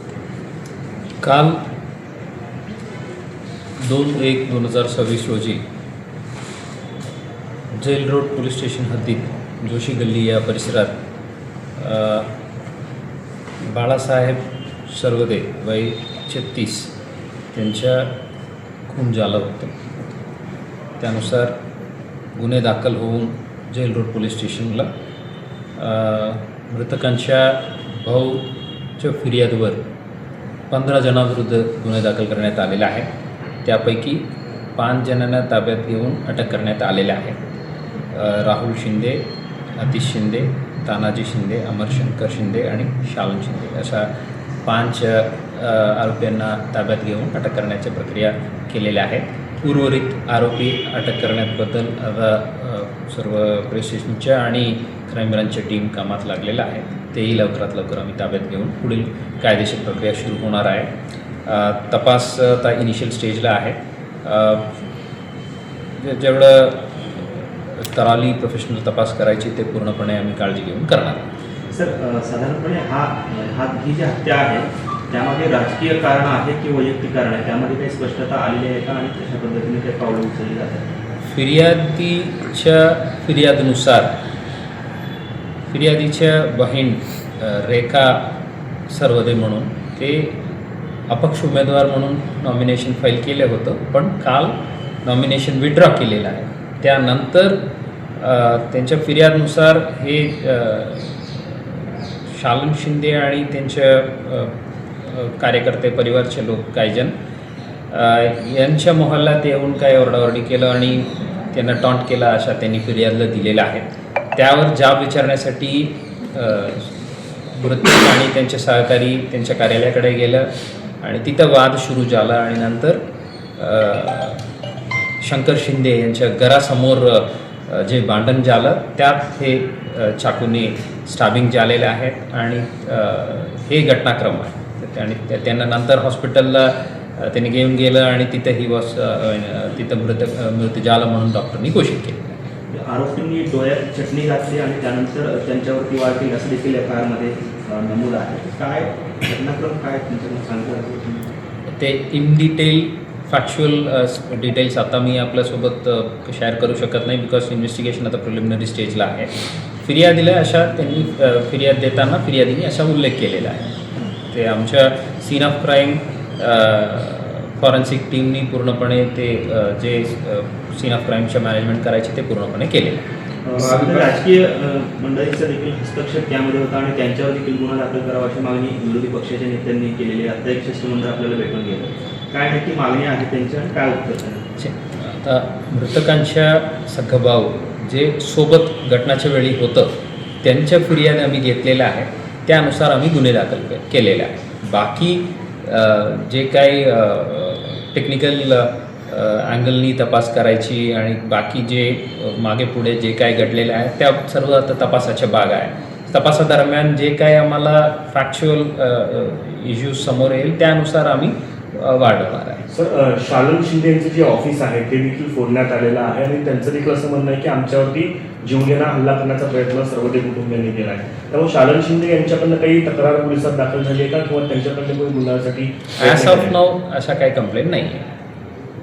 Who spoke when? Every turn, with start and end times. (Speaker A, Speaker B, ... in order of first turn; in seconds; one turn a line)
Speaker A: 1.2-1.6
Speaker A: 3.8-5.6
Speaker A: 7.8-11.0
Speaker A: 11.8-12.3
Speaker A: 13.7-16.9
Speaker A: 17.5-18.1
Speaker A: 18.9-19.9
Speaker A: 21.0-21.5
Speaker A: 22.4-24.9
Speaker A: 25.8-29.8
Speaker A: 30.7-33.1
Speaker A: 33.6-34.2
Speaker A: 34.8-37.4
Speaker A: 38.1-44.1
Speaker A: 44.6-60.9
Speaker A: 61.5-64.7
Speaker A: 66.0-71.3
Speaker B: 71.7-80.8
Speaker A: 81.3-84.1
Speaker A: 85.7-88.4
Speaker A: 88.9-90.4
Speaker A: 91.1-101.3
Speaker A: 102.3-107.1
Speaker A: 107.9-116.9
Speaker A: 117.5-120.5
Speaker A: 121.0-123.0
Speaker A: 123.6-124.4
Speaker A: 125.2-142.2
Speaker B: 142.7-151.3
Speaker A: 151.8-159.3
Speaker A: 159.8-163.7
Speaker A: 164.3-173.1
Speaker B: 173.4-184.4
Speaker A: 184.6-212.6
Speaker C: 212.7-226.5
Speaker A: 226.0-228.1